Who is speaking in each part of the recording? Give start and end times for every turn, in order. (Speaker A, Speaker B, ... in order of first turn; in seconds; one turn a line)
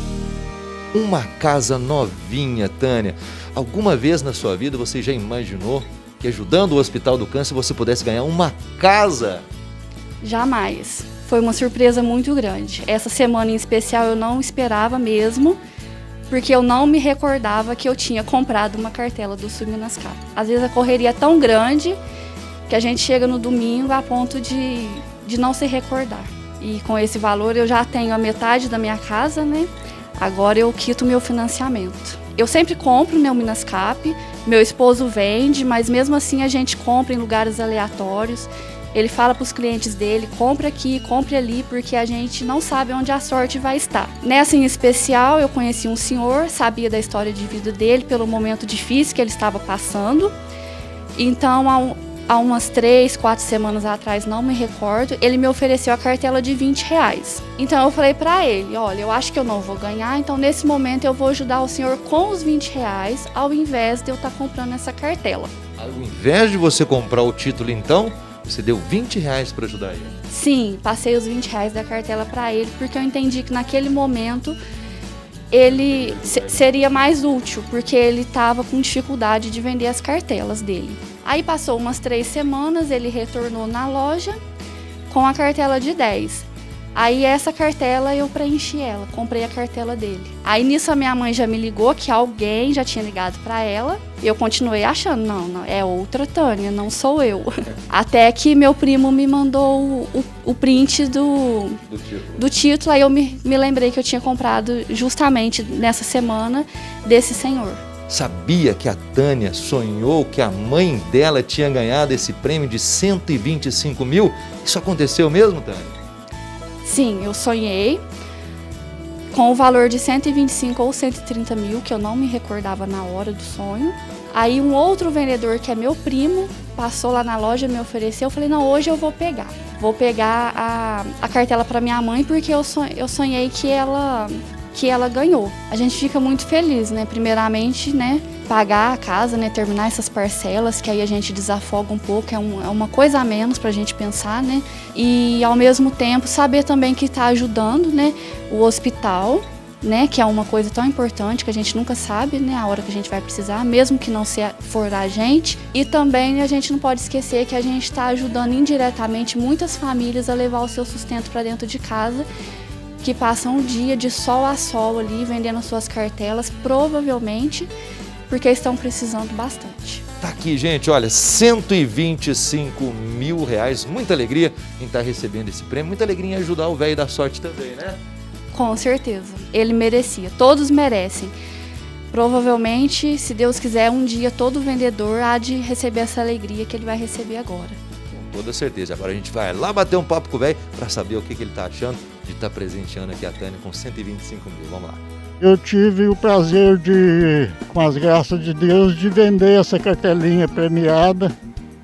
Speaker A: 0.9-9.4
Speaker B: 10.2-15.6
Speaker B: 16.3-22.0
Speaker B: 22.7-50.3
Speaker B: 51.1-65.5
Speaker A: 65.8-70.1
Speaker B: 70.3-74.6
Speaker B: 75.5-84.4
Speaker A: 75.7-76.6
Speaker B: 85.1-101.8
Speaker A: 101.9-102.4
Speaker B: 102.4-107.8
Speaker A: 108.1-116.0
Speaker B: 116.8-118.0
Speaker B: 119.3-162.3
Speaker B: 163.0-167.7
Speaker B: 168.3-170.0
Speaker A: 170.2-178.0
Speaker B: 178.5-181.3
Speaker B: 182.1-187.8
Speaker A: 188.1-195.0
Speaker C: 195.4-201.3